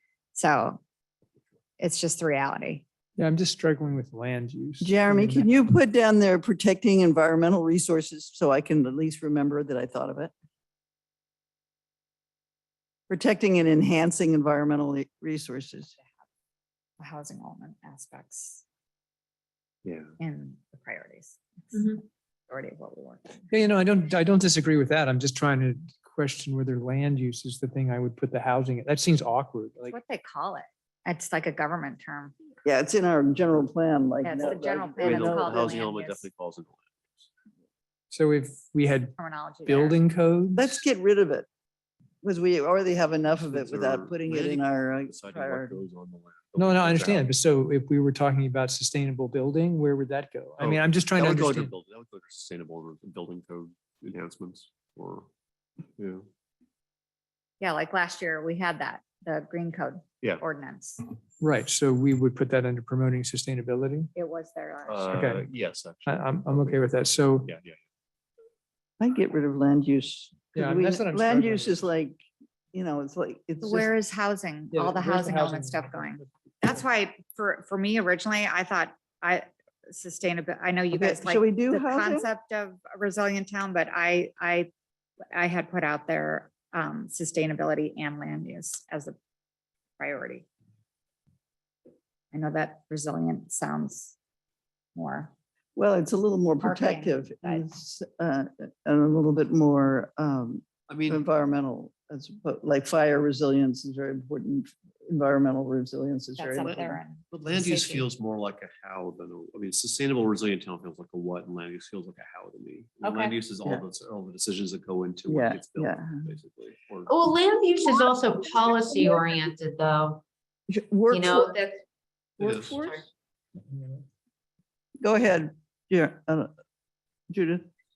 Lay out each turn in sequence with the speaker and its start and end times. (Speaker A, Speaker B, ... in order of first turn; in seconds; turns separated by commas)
Speaker A: 0.3-0.8, Speaker A: 1.8-2.9, Speaker B: 3.2-5.5, Speaker C: 4.8-10.3, Speaker C: 13.1-15.9, Speaker A: 17.0-18.6, Speaker D: 19.9-20.1, Speaker A: 20.2-23.5, Speaker E: 21.7-22.0, Speaker B: 23.5-30.0, Speaker A: 29.9-32.4, Speaker C: 32.6-35.6, Speaker A: 34.2-36.3, Speaker D: 35.0-37.3, Speaker B: 38.1-40.7, Speaker A: 39.2-40.0, Speaker C: 40.5-41.5, Speaker C: 42.2-45.8, Speaker D: 43.2-47.4, Speaker B: 46.6-51.7, Speaker D: 50.6-55.3, Speaker A: 57.6-61.0, Speaker B: 61.4-64.1, Speaker A: 64.2-65.1, Speaker D: 64.9-66.9, Speaker B: 65.1-65.5, Speaker B: 66.0-67.5, Speaker D: 67.4-67.8, Speaker C: 69.0-72.2, Speaker B: 70.5-71.8, Speaker C: 72.7-73.9, Speaker A: 73.6-84.7, Speaker B: 74.7-76.3, Speaker C: 80.9-82.3, Speaker A: 85.3-89.2, Speaker A: 90.0-90.5, Speaker A: 92.3-94.2, Speaker A: 95.0-95.3, Speaker C: 95.8-107.0, Speaker A: 96.6-97.7, Speaker D: 100.9-101.2, Speaker A: 106.4-108.1, Speaker D: 107.3-117.2, Speaker E: 113.0-113.3, Speaker C: 115.3-116.2, Speaker E: 117.1-120.2, Speaker C: 118.9-119.2, Speaker C: 120.7-121.5, Speaker E: 121.1-121.8, Speaker C: 122.4-123.0, Speaker D: 122.4-122.7, Speaker E: 122.5-123.0, Speaker C: 125.0-126.5, Speaker C: 127.3-127.7